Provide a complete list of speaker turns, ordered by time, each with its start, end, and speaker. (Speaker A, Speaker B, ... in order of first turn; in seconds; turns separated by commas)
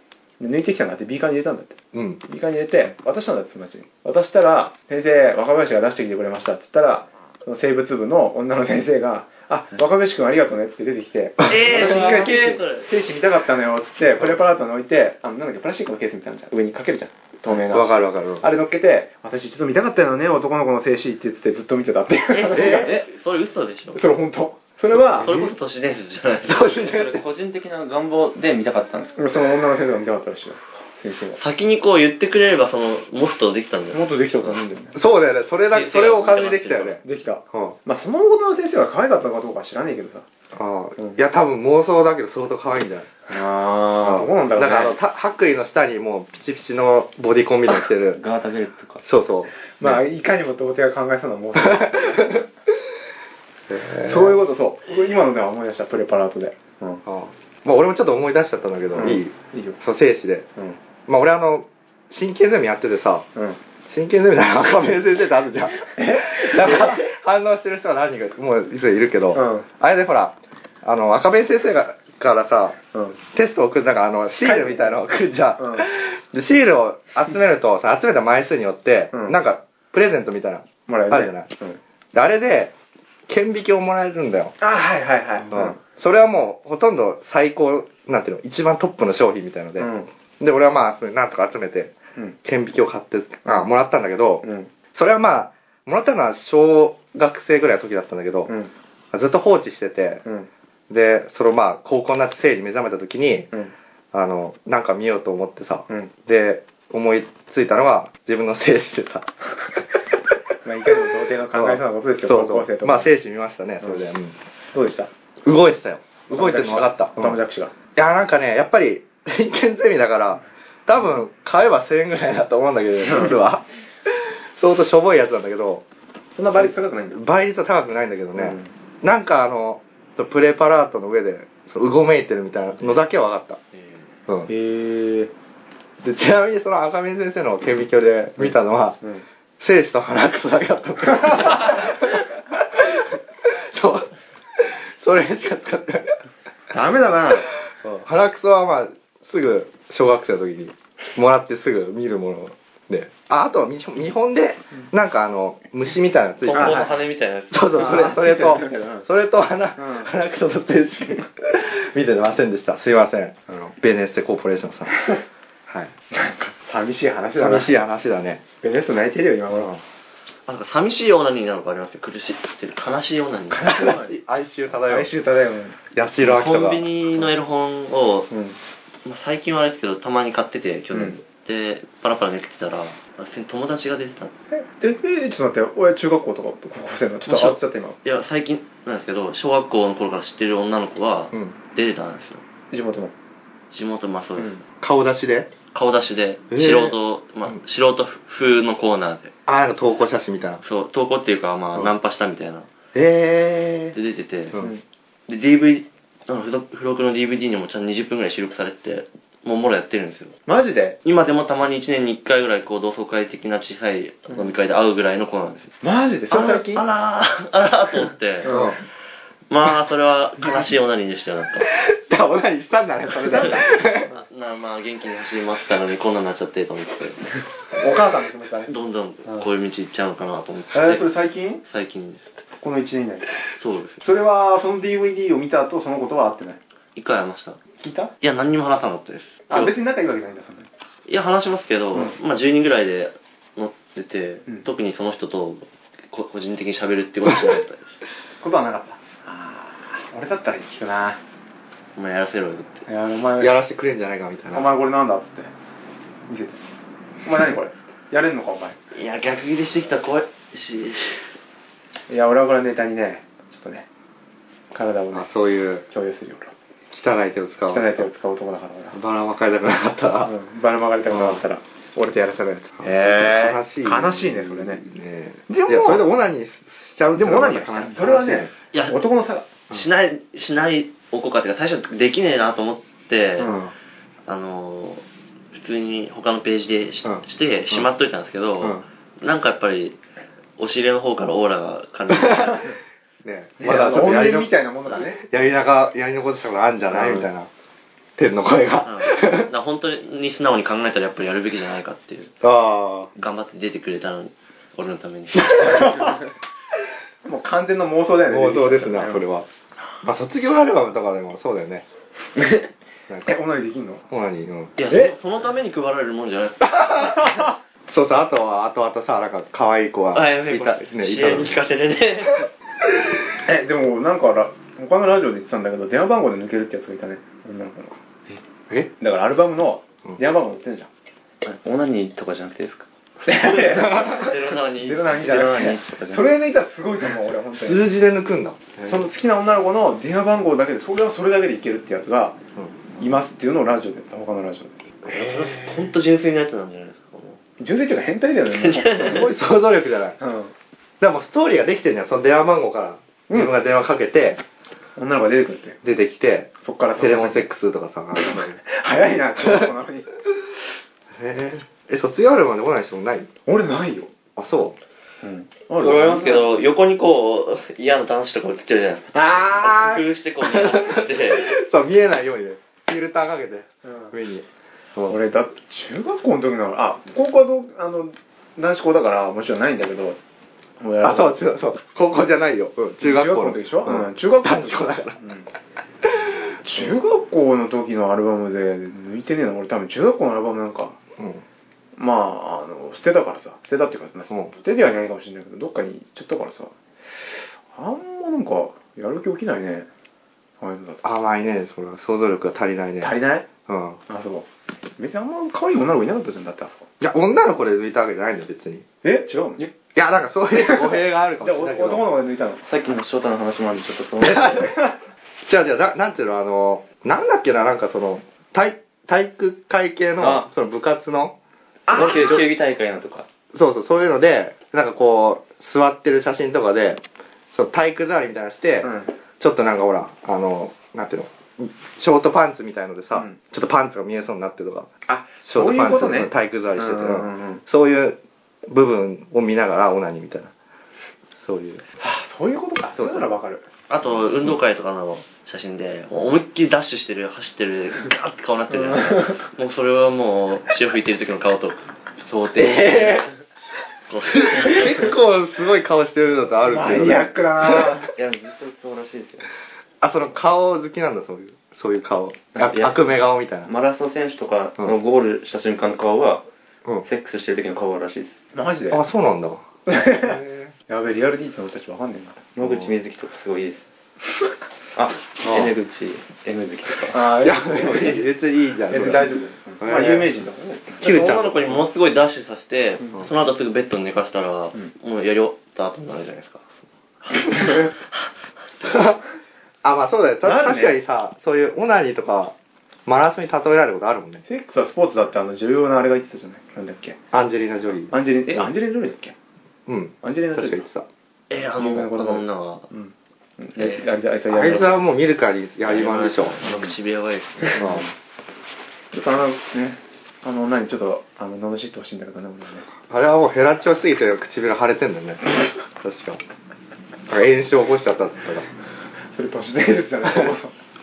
Speaker A: 0.4-23.0, Speaker B: 1.9-2.2, Speaker B: 11.4-11.7, Speaker C: 11.4-12.9, Speaker B: 17.7-18.4, Speaker C: 22.3-24.0, Speaker B: 22.5-23.0, Speaker A: 23.9-25.4, Speaker C: 25.0-26.6, Speaker B: 25.2-25.5, Speaker B: 26.4-27.2, Speaker D: 26.7-29.1, Speaker A: 29.1-31.4, Speaker C: 31.4-34.6, Speaker A: 33.9-35.0, Speaker B: 34.9-37.0, Speaker C: 35.7-37.0, Speaker A: 37.0-40.2, Speaker B: 37.5-37.8, Speaker B: 40.5-43.1, Speaker A: 43.3-45.0, Speaker B: 44.0-48.2, Speaker D: 48.1-49.0, Speaker B: 49.0-50.0, Speaker A: 49.8-52.4, Speaker B: 51.7-52.2, Speaker B: 53.7-54.4, Speaker A: 54.0-57.0, Speaker B: 57.0-60.5, Speaker A: 58.9-59.8, Speaker B: 61.1-63.3, Speaker B: 63.9-81.5, Speaker A: 65.8-67.0, Speaker A: 69.3-69.7, Speaker A: 74.4-75.0, Speaker A: 75.6-75.9, Speaker A: 79.1-79.4, Speaker A: 80.9-81.8, Speaker B: 82.1-82.7, Speaker B: 83.3-84.5, Speaker A: 84.6-85.8, Speaker B: 85.5-98.5, Speaker A: 89.8-90.1, Speaker A: 94.4-94.7, Speaker A: 98.5-98.7, Speaker B: 99.1-100.2, Speaker B: 100.9-103.5, Speaker B: 104.1-109.3, Speaker A: 110.6-113.1, Speaker B: 111.5-114.4, Speaker A: 114.7-115.1, Speaker B: 115.4-117.4, Speaker A: 116.3-117.7, Speaker B: 117.9-125.8, Speaker A: 123.0-123.3, Speaker A: 126.3-127.2, Speaker B: 126.6-133.6, Speaker A: 128.3-128.7, Speaker A: 134.5-135.3, Speaker B: 136.0-139.0, Speaker A: 138.4-139.2, Speaker B: 139.6-146.2, Speaker A: 141.1-141.7, Speaker A: 146.7-147.5, Speaker B: 147.8-156.9, Speaker C: 156.4-158.1, Speaker A: 156.5-157.0, Speaker B: 157.5-165.1, Speaker A: 157.7-159.1, Speaker A: 159.8-160.1, Speaker B: 165.7-165.9, Speaker A: 166.1-167.7, Speaker B: 167.4-168.4, Speaker A: 168.6-169.7, Speaker B: 169.5-169.8, Speaker C: 170.5-173.8, Speaker A: 173.5-174.2, Speaker B: 173.7-175.1, Speaker A: 174.8-175.8, Speaker B: 175.9-176.9, Speaker C: 176.2-178.3, Speaker A: 178.3-178.6, Speaker C: 179.0-184.3, Speaker A: 180.9-181.2, Speaker A: 184.5-188.0, Speaker C: 187.2-192.4, Speaker A: 192.7-193.1, Speaker C: 193.7-194.5, Speaker B: 194.8-195.5, Speaker C: 195.7-199.3, Speaker B: 196.5-196.9, Speaker B: 199.5-200.6, Speaker C: 200.6-202.7, Speaker B: 202.9-203.9, Speaker C: 203.9-204.6, Speaker C: 205.3-210.3, Speaker A: 210.5-211.0, Speaker C: 211.0-215.8, Speaker A: 215.8-216.8, Speaker C: 216.3-218.7, Speaker A: 218.4-218.8, Speaker B: 218.4-218.8, Speaker C: 219.5-221.7, Speaker B: 221.8-224.1, Speaker A: 223.2-223.9, Speaker C: 223.4-227.4, Speaker A: 227.7-228.7, Speaker C: 228.7-231.1, Speaker A: 230.7-231.6, Speaker C: 231.6-232.2, Speaker A: 232.6-233.3, Speaker C: 233.6-234.0, Speaker A: 234.0-236.6, Speaker C: 236.9-237.6, Speaker A: 237.8-238.1, Speaker C: 238.2-239.7, Speaker A: 239.5-240.7, Speaker C: 241.1-247.9, Speaker A: 248.4-251.2, Speaker C: 251.9-252.8, Speaker A: 252.8-253.5, Speaker B: 253.4-254.7, Speaker A: 254.5-255.5, Speaker A: 256.3-256.6, Speaker A: 257.2-258.8, Speaker C: 258.9-261.3, Speaker A: 262.1-263.9, Speaker A: 264.7-265.3, Speaker B: 265.1-265.8, Speaker A: 265.9-266.5, Speaker B: 266.9-268.1, Speaker A: 267.6-269.0, Speaker B: 268.9-270.3, Speaker A: 270.2-274.8, Speaker B: 271.1-271.4, Speaker B: 272.8-278.5, Speaker A: 275.5-276.1, Speaker A: 277.1-279.5, Speaker C: 278.7-279.0, Speaker C: 279.7-283.5, Speaker A: 283.4-283.7, Speaker C: 284.3-290.0, Speaker B: 287.0-287.9, Speaker C: 290.6-292.7, Speaker B: 292.2-292.4, Speaker B: 293.2-294.5, Speaker A: 293.6-295.2, Speaker B: 295.2-297.5, Speaker A: 296.9-297.2, Speaker B: 298.2-299.5, Speaker C: 298.8-302.3, Speaker B: 302.4-303.1, Speaker C: 303.1-306.1, Speaker A: 305.6-306.2, Speaker A: 307.2-309.2, Speaker B: 308.3-309.4, Speaker B: 310.0-311.9, Speaker B: 313.1-313.4, Speaker A: 313.2-314.0, Speaker B: 314.1-314.7, Speaker C: 314.8-317.0, Speaker A: 314.9-315.1, Speaker B: 316.6-317.3, Speaker B: 317.9-321.6, Speaker C: 320.1-322.5, Speaker A: 323.4-327.9, Speaker A: 329.0-330.9, Speaker D: 331.4-332.9, Speaker A: 333.2-337.9, Speaker C: 333.3-335.7, Speaker B: 333.8-334.3, Speaker D: 335.2-336.3, Speaker B: 337.5-339.1, Speaker A: 338.8-342.4, Speaker A: 343.0-345.9, Speaker C: 345.0-347.4, Speaker A: 347.6-349.3, Speaker C: 348.5-349.3, Speaker B: 349.0-350.2, Speaker A: 350.2-350.5, Speaker B: 351.0-354.4, Speaker A: 353.3-353.5, Speaker A: 354.9-355.8, Speaker B: 355.8-358.6, Speaker A: 356.6-357.5, Speaker A: 358.1-360.1, Speaker B: 359.4-359.7, Speaker B: 361.1-363.3, Speaker A: 363.4-364.1, Speaker B: 364.4-364.8, Speaker A: 365.2-366.5, Speaker C: 365.8-371.5, Speaker A: 369.1-370.0, Speaker B: 370.4-375.2, Speaker A: 373.8-374.1, Speaker A: 375.1-380.2, Speaker A: 380.8-381.5, Speaker B: 381.0-385.2, Speaker A: 383.0-385.5, Speaker B: 386.1-386.9, Speaker A: 386.6-391.0, Speaker B: 391.2-391.4, Speaker A: 391.9-399.9, Speaker A: 400.6-401.0, Speaker B: 401.0-404.0, Speaker A: 403.0-403.5, Speaker A: 404.1-404.5, Speaker A: 405.0-406.9, Speaker B: 407.0-408.8, Speaker A: 409.0-409.6, Speaker B: 409.9-412.1, Speaker A: 410.5-412.6, Speaker D: 412.6-414.7, Speaker B: 414.2-414.7, Speaker A: 414.6-414.9, Speaker B: 415.4-421.4, Speaker D: 420.2-420.5, Speaker A: 421.9-422.4, Speaker D: 421.9-423.3, Speaker B: 421.9-422.4, Speaker B: 423.5-434.9, Speaker A: 428.8-429.1, Speaker A: 435.1-437.6, Speaker B: 435.4-440.5, Speaker B: 441.4-441.8, Speaker A: 442.0-443.6, Speaker B: 442.9-443.3, Speaker C: 443.9-453.3, Speaker A: 448.9-449.3, Speaker B: 452.6-453.2, Speaker C: 454.1-455.1, Speaker B: 454.3-457.9, Speaker A: 456.7-458.1, Speaker D: 458.0-459.5, Speaker B: 460.0-463.7, Speaker D: 462.6-463.1, Speaker D: 463.6-466.4, Speaker D: 467.0-468.4, Speaker A: 468.5-469.0, Speaker B: 468.9-470.7, Speaker A: 469.9-472.5, Speaker D: 472.6-473.8, Speaker B: 472.6-472.9, Speaker D: 474.9-477.3, Speaker A: 477.1-478.2, Speaker B: 477.4-480.3, Speaker A: 478.9-481.5, Speaker B: 481.0-481.6, Speaker C: 481.0-486.6, Speaker C: 487.3-487.8, Speaker A: 487.5-487.9, Speaker B: 488.8-489.2, Speaker B: 489.8-492.5, Speaker A: 490.4-491.0, Speaker B: 493.1-494.4, Speaker A: 494.4-497.2, Speaker B: 497.3-498.7, Speaker A: 498.1-499.3, Speaker B: 499.9-501.1, Speaker A: 500.2-500.8, Speaker C: 501.5-502.9, Speaker A: 501.8-505.1, Speaker B: 504.5-506.6, Speaker C: 505.8-508.0, Speaker A: 507.7-508.0, Speaker B: 507.8-508.1, Speaker A: 509.1-512.9, Speaker B: 513.1-516.4, Speaker B: 517.3-518.7, Speaker A: 519.3-520.7